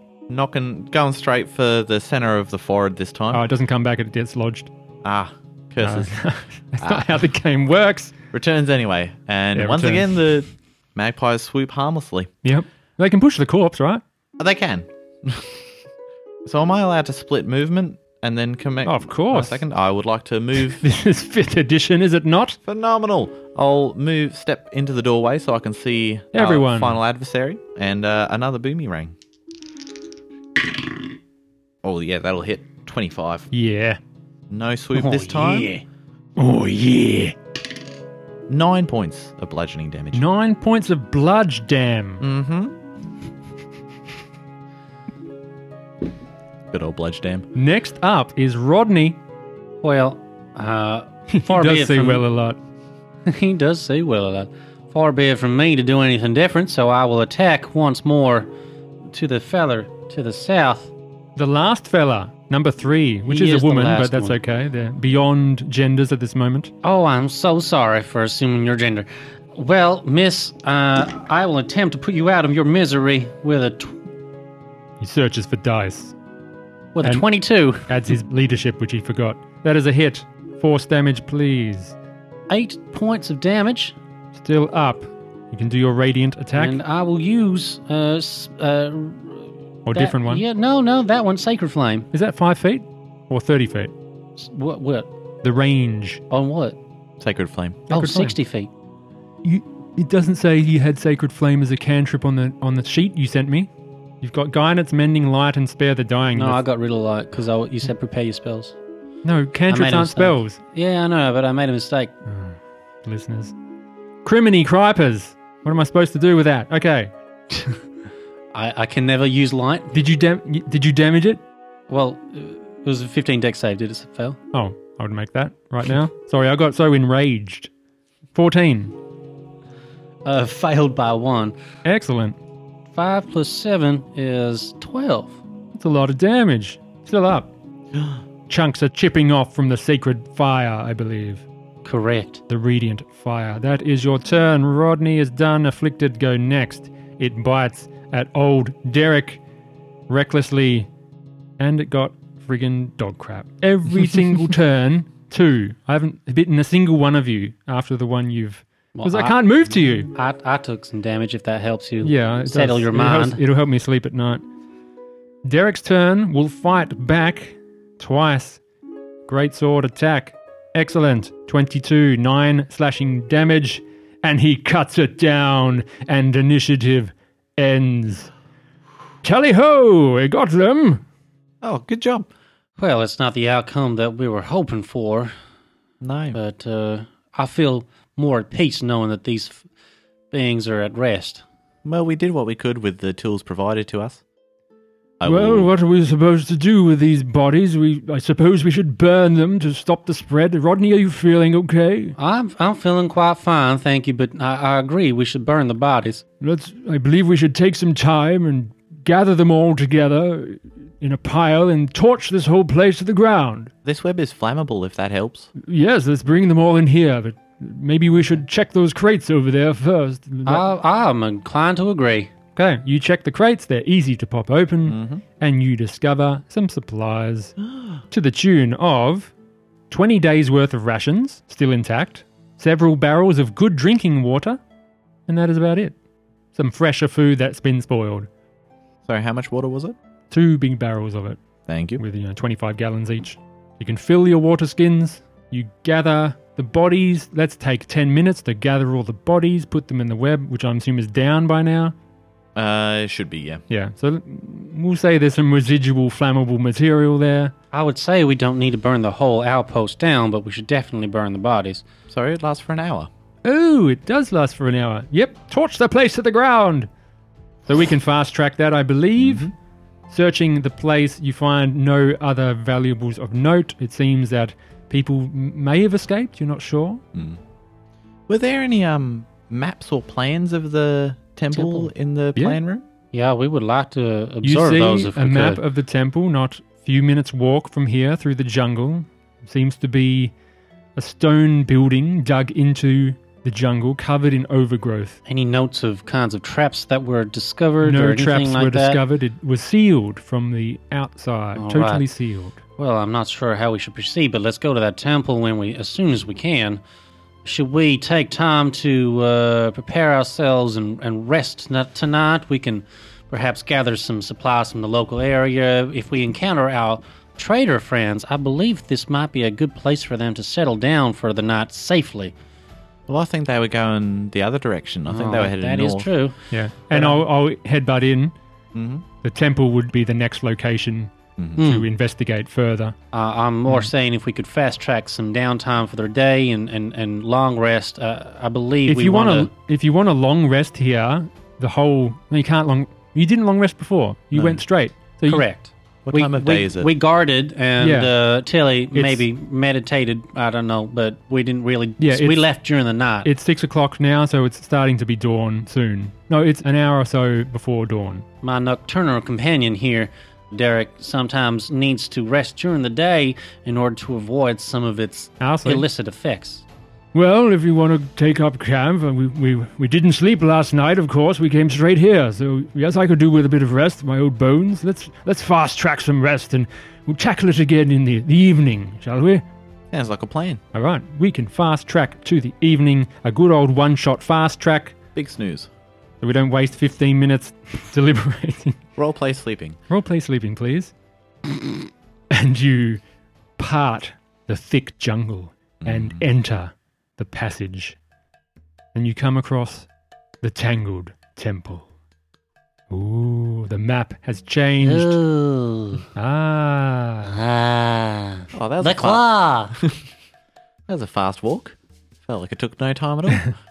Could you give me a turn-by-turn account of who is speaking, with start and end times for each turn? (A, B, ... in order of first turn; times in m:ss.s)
0:00.3-0:03.4 A
0:03.3-0:04.7 B
0:05.0-0:06.1 A
0:05.8-0:08.1 B
0:06.8-0:07.2 A
0:08.3-0:12.3 A
0:09.5-0:10.1 B
0:12.4-0:14.0 B
0:14.4-0:15.6 A
0:16.4-0:20.8 A
0:18.8-0:19.6 B
0:20.8-0:22.6 B
0:22.6-0:29.1 A
0:26.3-0:27.0 B
0:31.8-0:33.5 A
0:33.5-0:34.0 B
0:34.5-0:35.7 A
0:34.9-0:35.8 C
0:36.4-0:37.3 B
0:38.5-0:40.2 A
0:40.1-0:42.2 B
0:42.2-0:42.8 A
0:46.7-0:47.5 A
0:47.5-0:49.2 B
0:49.8-0:52.2 C
0:51.3-0:52.6 B
0:53.2-0:58.5 C
0:59.1-1:00.9 C
1:01.4-1:06.7 B
1:03.3-1:04.4 C
1:06.8-1:14.0 C
1:15.0-1:16.1 B
1:16.9-1:17.9 C
1:17.9-1:21.9 B
1:22.5-1:24.0 C
1:24.3-1:26.8 B
1:26.6-1:32.1 C
1:29.9-1:30.4 B
1:32.1-1:33.9 B
1:34.4-1:35.1 C
1:35.4-1:36.2 B
1:36.3-1:36.8 C
1:37.2-1:37.8 A
1:37.9-1:38.3 B
1:37.9-1:38.7 C
1:39.4-1:43.7 B
1:44.2-1:46.6 B
1:46.3-1:48.8 C
1:49.2-1:50.6 B
1:49.7-1:52.1 C
1:52.3-1:53.5 B
1:54.2-1:57.1 B
1:58.5-1:59.9 C
1:59.9-2:01.4 B
2:01.9-2:04.4 C
2:04.5-2:07.7 B
2:08.3-2:09.0 B
2:10.2-2:11.5 C
2:11.8-2:12.4 B
2:12.9-2:15.4 C
2:15.7-2:17.5 B
2:18.5-2:21.4 B
2:21.8-2:22.4 C
2:22.5-2:29.4 B
2:30.1-2:30.9 B
2:31.6-2:40.1 B
2:39.0-2:39.4 C
2:40.1-2:43.4 C
2:42.0-2:44.4 B
2:45.4-2:48.6 B
2:49.3-2:58.3 B
2:59.2-3:01.0 B
3:01.6-3:02.3 A
3:02.8-3:05.3 C
3:06.0-3:06.4 A
3:06.3-3:09.7 C
3:10.3-3:11.4 C
3:11.8-3:14.2 A
3:15.2-3:15.7 A
3:15.2-3:22.1 B
3:22.2-3:26.2 C
3:26.4-3:33.7 B
3:33.8-3:35.5 A
3:35.6-3:40.6 B
3:40.4-3:42.3 C
3:42.6-3:47.6 B
3:44.9-3:45.2 A
3:48.1-3:49.3 B
3:49.9-3:54.6 B
3:55.3-3:55.9 B
3:56.5-3:58.3 B
3:59.0-4:00.0 A
4:00.3-4:01.4 B
4:01.7-4:02.0 A
4:02.0-4:11.9 B
4:12.5-4:13.6 A
4:13.7-4:17.5 B
4:17.7-4:21.8 C
4:22.1-4:23.1 A
4:23.4-4:26.9 B
4:27.7-4:29.5 B
4:29.2-4:29.5 A
4:30.1-4:37.0 B
4:37.1-4:37.4 A
4:38.3-4:42.8 A
4:41.5-4:41.9 C
4:43.1-4:45.6 C
4:44.4-4:50.3 B
4:51.0-4:55.2 B
4:55.3-4:59.0 C
4:57.8-5:02.6 B
5:01.5-5:02.0 C
5:02.8-5:06.8 C
5:07.4-5:22.3 C
5:23.1-5:26.1 A
5:25.1-5:26.4 C
5:26.5-5:28.3 B
5:28.7-5:29.0 A
5:29.2-5:32.9 B
5:31.4-5:31.6 A
5:31.6-5:31.9 C
5:33.1-5:39.5 C
5:38.9-5:45.4 B
5:44.3-5:44.6 A
5:45.3-5:53.3 C
5:46.0-5:46.9 A
5:47.8-5:48.1 B
5:48.9-5:49.2 B
5:52.0-5:52.5 B
5:53.2-5:58.2 B
5:58.4-6:06.6 C
6:05.4-6:05.8 B
6:07.1-6:19.4 B
6:19.9-6:20.6 A
6:20.7-6:24.9 B
6:25.2-6:25.7 A
6:26.2-6:28.8 B
6:29.0-6:29.8 A
6:29.9-6:30.9 B
6:31.4-6:31.8 B
6:32.3-6:33.0 B
6:33.6-6:38.0 B
6:35.8-6:36.2 A
6:38.9-6:39.9 B
6:40.4-6:41.8 B
6:42.9-6:45.2 B
6:44.8-6:46.0 C
6:46.1-6:47.3 B
6:47.2-6:49.8 C
6:48.5-6:50.0 A
6:50.9-6:53.5 A